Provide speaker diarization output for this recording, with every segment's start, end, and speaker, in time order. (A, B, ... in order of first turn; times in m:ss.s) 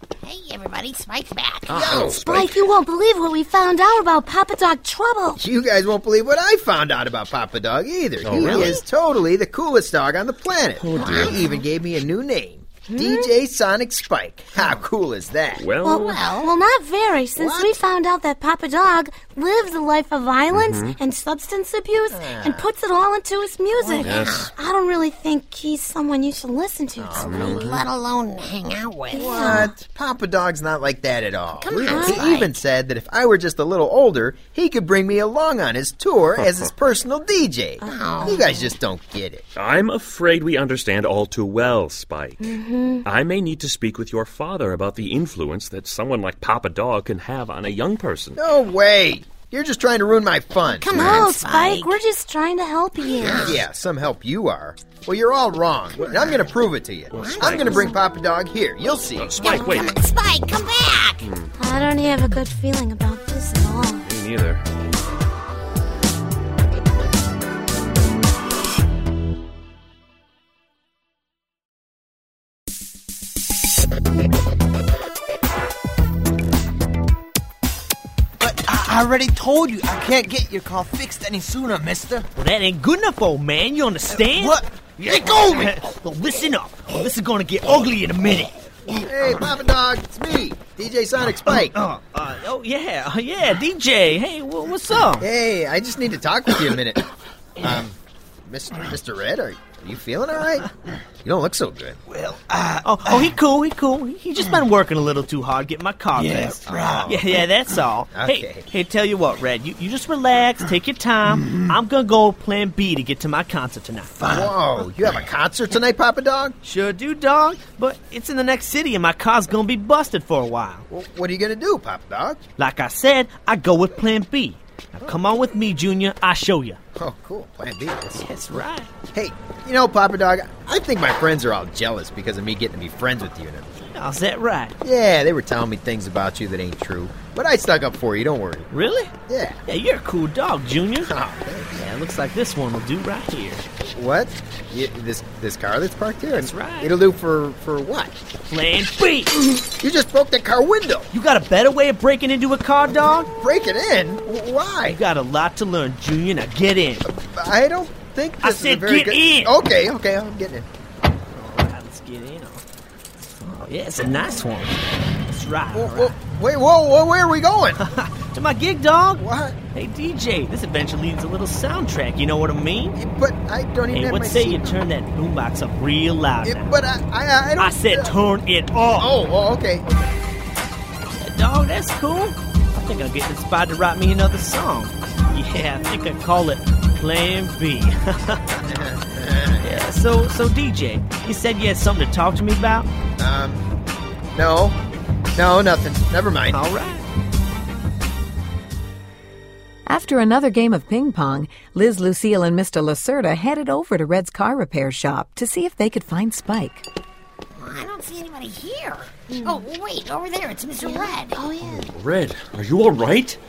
0:00.2-0:02.1 A
0:01.6-0:02.6 B
0:01.8-0:02.2 C
0:02.1-0:05.4 D
0:05.4-0:15.6 C
0:08.2-0:08.8 B
0:08.5-0:08.8 A
0:10.8-0:11.4 B
0:11.0-0:11.3 A
0:12.9-0:13.3 D
0:15.6-0:16.3 B
0:15.8-0:27.5 D
0:16.0-0:16.5 A
0:17.4-0:17.7 C
0:20.5-0:21.0 B
0:22.1-0:22.7 C
0:23.8-0:24.5 A
0:24.0-0:24.5 B
0:27.0-0:27.8 C
0:27.1-0:27.8 B
0:27.3-0:29.5 A
0:29.1-0:29.7 D
0:29.1-0:39.4 C
0:31.5-0:32.5 A
0:31.8-0:32.3 D
0:36.4-0:36.7 B
0:37.8-0:38.7 D
0:37.9-0:38.4 A
0:39.6-0:48.4 B
0:42.4-0:43.0 D
0:48.4-0:51.0 C
0:50.7-0:52.0 A
0:51.0-0:51.3 B
0:51.0-0:53.6 D
0:53.0-0:53.6 A
0:53.2-0:59.5 C
0:56.0-0:56.4 A
0:57.1-0:57.8 B
0:57.1-0:57.7 A
0:57.6-0:58.0 D
0:59.2-1:00.0 B
0:59.4-1:01.2 A
0:59.4-0:59.7 D
1:01.2-1:01.5 B
1:01.6-1:04.1 D
1:04.0-1:04.6 B
1:18.4-1:22.2 E
1:22.4-1:28.6 F
1:24.1-1:25.7 E
1:29.0-1:31.8 C
1:31.5-1:35.2 F
1:35.2-1:37.0 C
1:37.6-1:40.7 C
1:41.2-1:42.0 C
1:42.1-1:43.2 E
1:42.8-1:54.1 F
1:46.2-1:47.1 E
1:46.6-1:47.3 C
1:48.1-1:48.7 C
1:54.2-1:56.6 C
1:56.6-2:00.8 F
2:00.9-2:02.4 C
2:02.6-2:06.8 F
2:07.0-2:08.3 C
2:08.2-2:08.9 F
2:09.1-2:13.8 C
2:13.9-2:14.8 F
2:14.8-2:18.7 C
2:18.7-2:19.1 F
2:19.3-2:19.6 C
2:19.6-2:21.1 F
2:21.0-2:21.8 C
2:21.7-2:23.6 F
2:23.9-2:28.1 C
2:26.4-2:26.9 F
2:28.5-2:29.4 F
2:29.8-2:31.1 C
2:31.1-2:33.3 F
2:33.4-2:35.0 C
2:34.8-2:37.0 F
2:37.0-2:40.7 C
2:38.4-2:39.5 F
2:41.3-2:42.6 F
2:43.4-2:46.1 F
2:45.7-2:47.8 C
2:47.8-2:53.0 F
2:49.2-2:49.6 C
2:53.0-2:54.8 C
2:53.9-2:56.8 F
2:56.4-2:58.2 C
2:57.6-2:59.1 F
2:59.0-3:00.1 C
3:01.2-3:08.6 F
3:08.6-3:09.8 C
3:09.6-3:12.9 F
3:13.2-3:13.7 C
3:14.3-3:14.8 C
3:15.3-3:16.6 C
3:16.5-3:17.0 F
3:19.9-3:26.8 G
3:27.6-3:31.4 A
3:29.3-3:29.7 D
3:30.8-3:31.9 D
3:31.6-3:33.4 B